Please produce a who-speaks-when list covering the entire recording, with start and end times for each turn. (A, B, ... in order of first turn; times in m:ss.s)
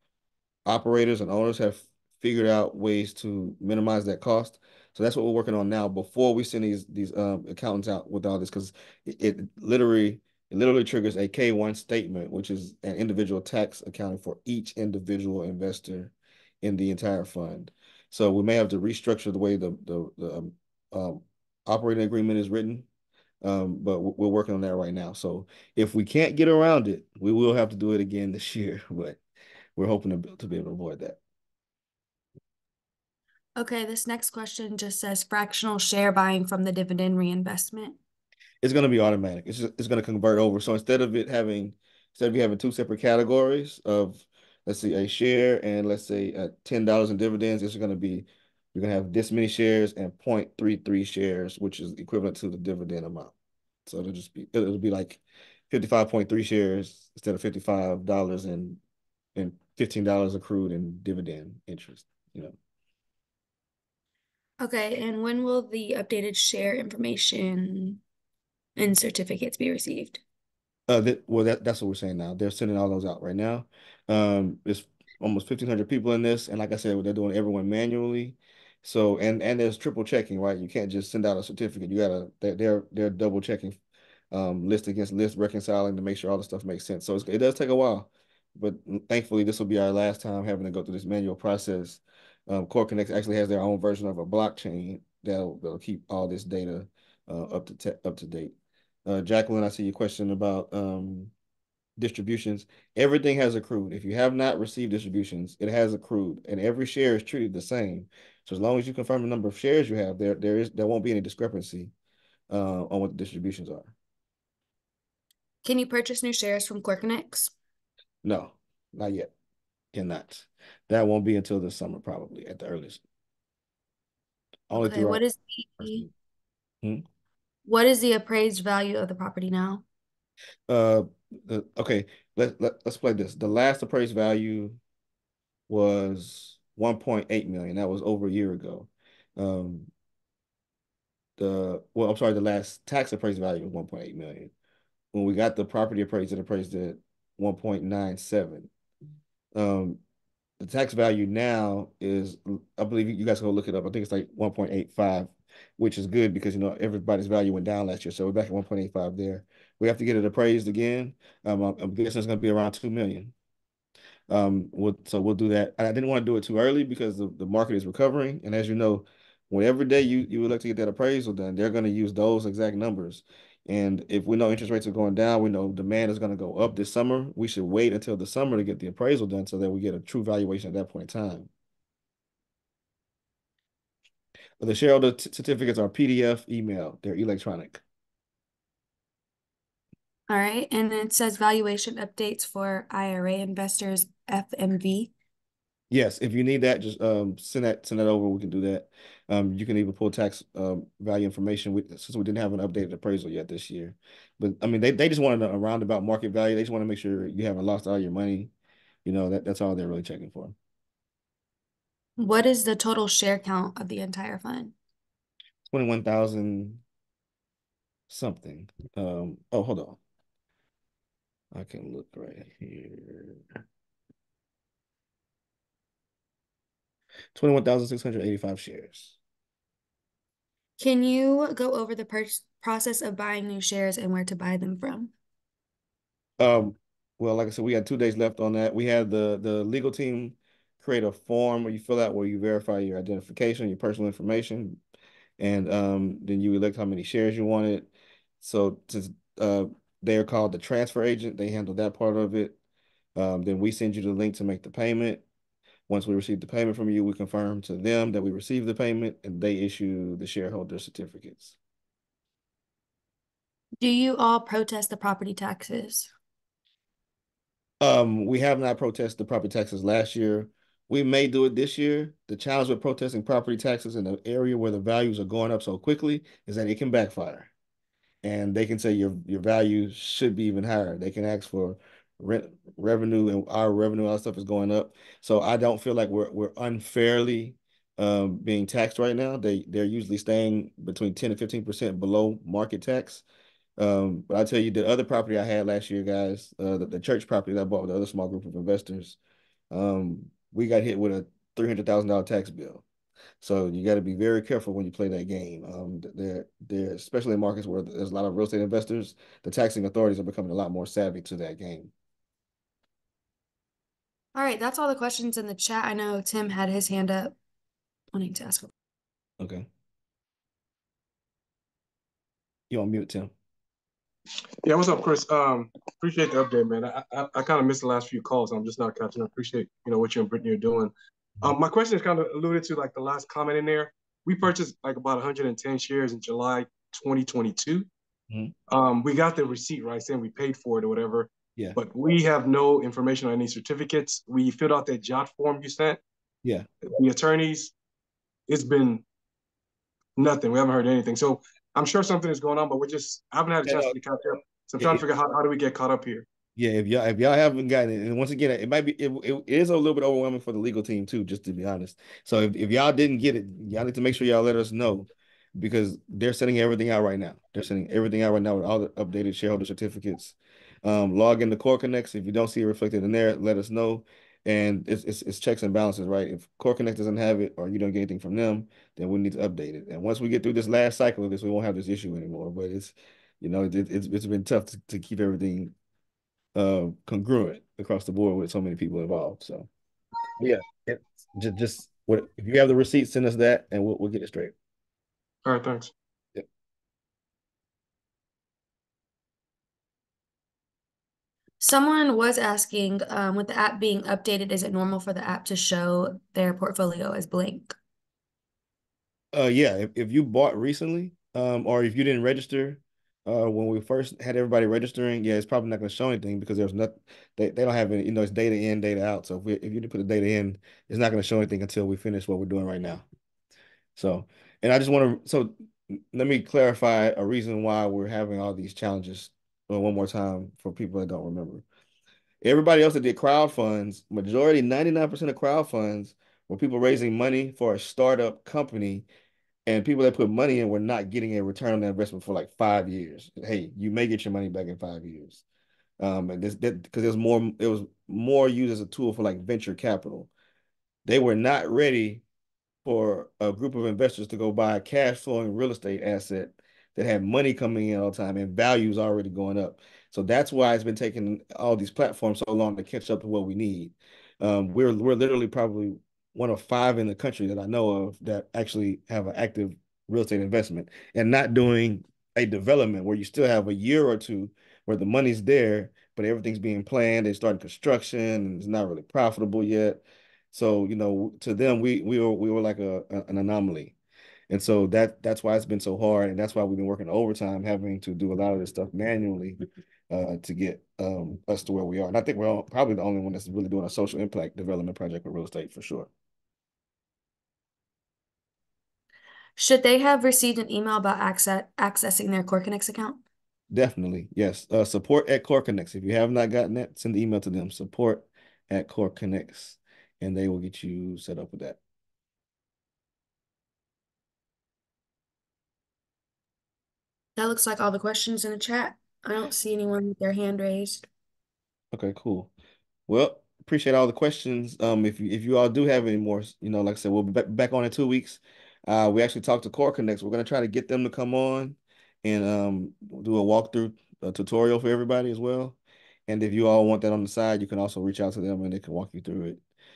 0:00.7-0:22.9 A
0:23.4-0:29.2 A
0:29.8-0:31.2 A
0:33.6-0:38.0 B
0:38.6-0:53.3 A
0:53.9-0:58.8 A
0:59.4-1:02.6 A
1:04.6-1:08.0 B
1:08.8-1:10.2 B
1:10.9-1:23.8 A
1:24.3-1:38.5 A
1:39.1-1:41.3 A
1:42.0-1:51.9 A
1:52.5-1:53.9 A
1:55.6-1:57.5 B
1:58.2-1:59.3 A
1:59.9-2:03.0 A
2:04.7-2:05.2 A
2:04.7-2:06.0 B
2:05.8-2:06.1 A
2:07.6-2:09.8 B
2:10.7-2:14.8 A
2:15.7-2:19.9 A
2:21.4-2:24.5 A
2:25.1-2:28.7 A
2:29.6-2:30.0 A
2:30.6-2:43.3 A
2:44.3-3:01.5 A
3:04.6-3:07.8 A
3:10.3-3:15.1 B
3:15.9-3:28.5 A
3:29.0-3:30.6 A
3:32.2-3:34.7 B
3:35.7-3:36.8 A
3:38.1-3:40.0 A
3:41.5-3:43.4 A
3:47.4-3:49.2 A
3:50.8-3:55.1 B
3:56.4-4:04.8 A
4:05.4-4:12.6 A
4:13.2-4:15.2 A
4:15.9-4:21.6 A
4:23.8-4:26.1 B
4:27.8-4:37.5 A
4:38.2-4:53.2 A
4:53.8-4:59.2 A
4:59.7-5:02.8 A
5:03.4-5:11.9 A
5:14.4-5:17.4 B
5:18.1-5:18.7 B
5:19.4-5:19.7 A
5:22.7-5:23.3 A
5:24.6-5:37.9 C
5:38.7-5:46.0 C
5:46.8-5:47.7 C
5:48.5-5:49.0 C
5:50.2-5:56.2 C
5:53.7-5:54.0 A
5:56.6-6:25.7 A
6:26.6-6:29.7 A
6:30.4-6:34.5 A
6:35.4-6:35.9 C
6:41.6-6:47.8 B
6:49.3-7:03.0 A
7:04.0-7:11.6 A
7:12.4-7:19.1 A
7:19.7-7:25.4 A
7:26.0-7:30.3 A
7:31.1-7:32.2 A
7:32.8-8:03.9 A
8:04.5-8:09.6 A
8:10.1-8:16.1 A
8:19.6-8:23.2 B
8:23.7-8:31.8 A
8:37.4-8:41.0 B
8:41.9-8:42.5 A
8:43.1-8:59.6 A